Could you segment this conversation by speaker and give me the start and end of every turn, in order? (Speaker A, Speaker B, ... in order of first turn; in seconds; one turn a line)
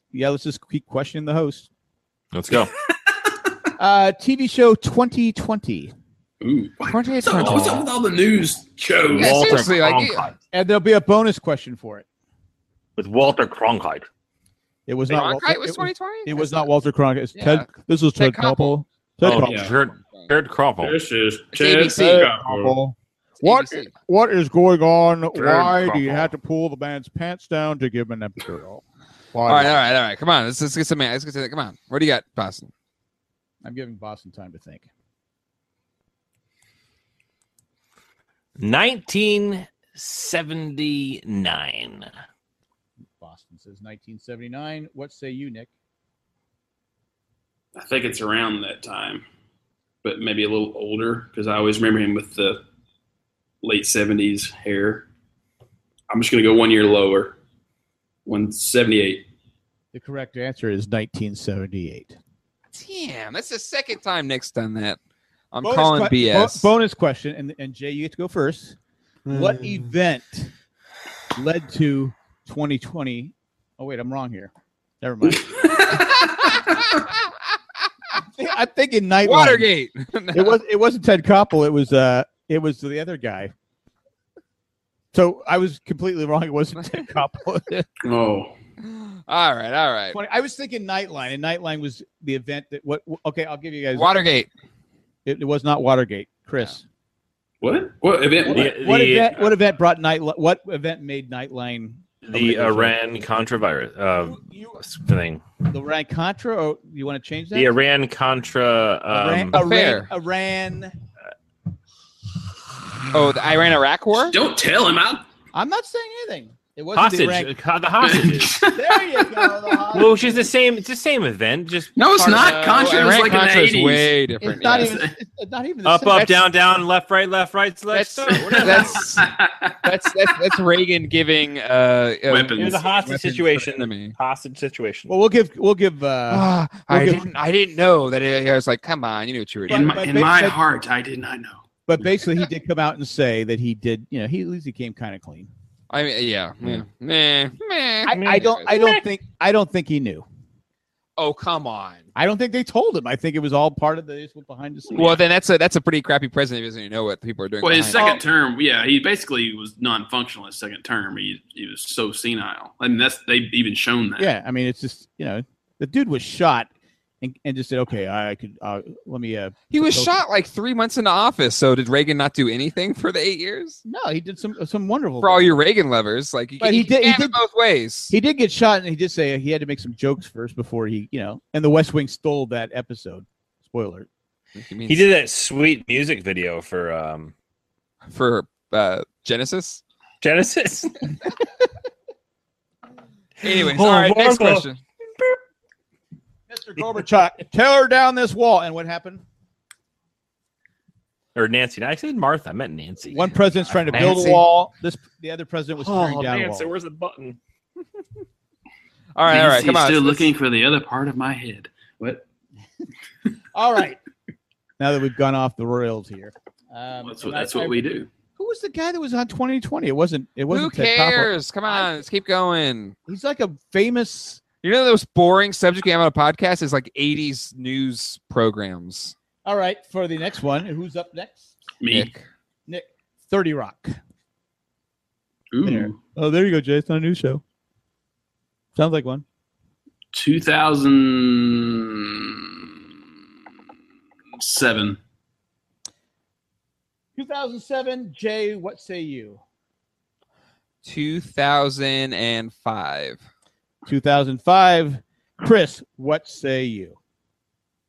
Speaker A: 0.1-1.7
Speaker B: 2.3-2.7
Speaker A: 3.8-5.9
Speaker C: 6.4-9.6
Speaker D: 6.9-7.8
Speaker B: 7.4-7.8
Speaker B: 9.1-10.3
Speaker D: 9.2-10.3
Speaker A: 10.5-12.1
Speaker B: 13.0-14.1
Speaker A: 14.9-19.7
Speaker D: 15.1-16.7
Speaker D: 17.4-18.8
Speaker B: 19.2-21.0
Speaker C: 19.4-19.7
Speaker C: 20.8-22.8
Speaker D: 21.5-22.3
Speaker A: 21.9-29.8
Speaker D: 23.4-23.9
Speaker B: 25.3-26.3
Speaker D: 29.5-32.7
Speaker A: 33.6-34.9
Speaker B: 38.6-42.1
Speaker A: 43.2-45.7
Speaker C: 47.8-49.2
Speaker C: 50.0-52.6
Speaker C: 53.6-55.1
Speaker C: 56.1-57.4
Speaker C: 58.3-59.3
Speaker A: 59.9-62.2
Speaker D: 62.7-65.0
Speaker D: 65.5-66.7
Speaker A: 65.6-68.8
Speaker A: 69.3-70.5
Speaker A: 71.3-74.5
Speaker A: 75.0-75.9
Speaker C: 75.3-76.6
Speaker A: 78.2-79.7
Speaker D: 79.2-80.6
Speaker A: 80.3-83.5
Speaker A: 85.1-87.9
Speaker C: 88.0-88.5
Speaker D: 88.8-90.2
Speaker A: 90.1-94.1
Speaker D: 93.9-94.5
Speaker A: 95.2-96.8
Speaker C: 97.6-98.7
Speaker A: 98.5-103.0
Speaker B: 98.5-99.4
Speaker B: 102.2-105.4
Speaker A: 104.2-104.8
Speaker A: 105.7-107.8
Speaker B: 107.5-109.6
Speaker A: 109.1-110.9
Speaker D: 109.5-110.1
Speaker D: 113.1-114.4
Speaker C: 114.2-115.2
Speaker A: 115.5-117.5
Speaker B: 117.0-118.6
Speaker C: 118.0-119.6
Speaker A: 118.7-120.5
Speaker B: 119.9-122.9
Speaker C: 122.0-125.1
Speaker D: 122.2-125.0
Speaker A: 124.4-126.4
Speaker B: 125.8-129.1
Speaker D: 126.1-126.4
Speaker D: 127.9-129.3
Speaker C: 128.3-129.8
Speaker D: 129.8-134.2
Speaker C: 132.3-132.8
Speaker B: 132.6-135.1
Speaker A: 135.1-137.3
Speaker D: 136.3-140.0
Speaker A: 139.7-140.6
Speaker C: 139.7-141.6
Speaker A: 141.9-145.5
Speaker D: 145.9-148.8
Speaker A: 148.1-150.3
Speaker B: 148.1-149.1
Speaker D: 151.2-152.1
Speaker A: 152.2-155.2
Speaker C: 154.9-155.2
Speaker D: 154.9-158.1
Speaker C: 157.6-164.3
Speaker A: 157.9-158.2
Speaker A: 164.2-166.7
Speaker A: 167.2-170.2
Speaker D: 169.7-173.8
Speaker A: 173.8-175.6
Speaker D: 175.2-178.2
Speaker A: 176.6-177.4
Speaker A: 178.1-184.1
Speaker D: 184.6-185.1
Speaker B: 184.9-187.3
Speaker D: 188.1-189.8
Speaker B: 190.2-191.2
Speaker B: 193.4-194.7
Speaker D: 193.4-194.8
Speaker A: 196.5-199.2
Speaker B: 201.3-204.2
Speaker A: 203.1-206.7
Speaker D: 203.9-204.4
Speaker B: 205.8-207.4
Speaker D: 209.2-210.3
Speaker C: 209.3-212.2
Speaker A: 213.5-214.0
Speaker A: 214.8-217.9
Speaker C: 217.0-218.1
Speaker A: 218.4-221.9
Speaker D: 220.5-222.9
Speaker A: 223.1-224.4
Speaker D: 224.6-229.2
Speaker A: 229.4-231.6
Speaker C: 231.8-232.1
Speaker D: 231.9-232.2
Speaker A: 232.7-234.0
Speaker C: 235.5-236.0
Speaker A: 235.6-237.4
Speaker A: 238.8-239.2
Speaker C: 240.1-242.7
Speaker C: 244.4-245.0
Speaker A: 247.2-249.4
Speaker D: 250.8-253.2
Speaker A: 253.8-257.0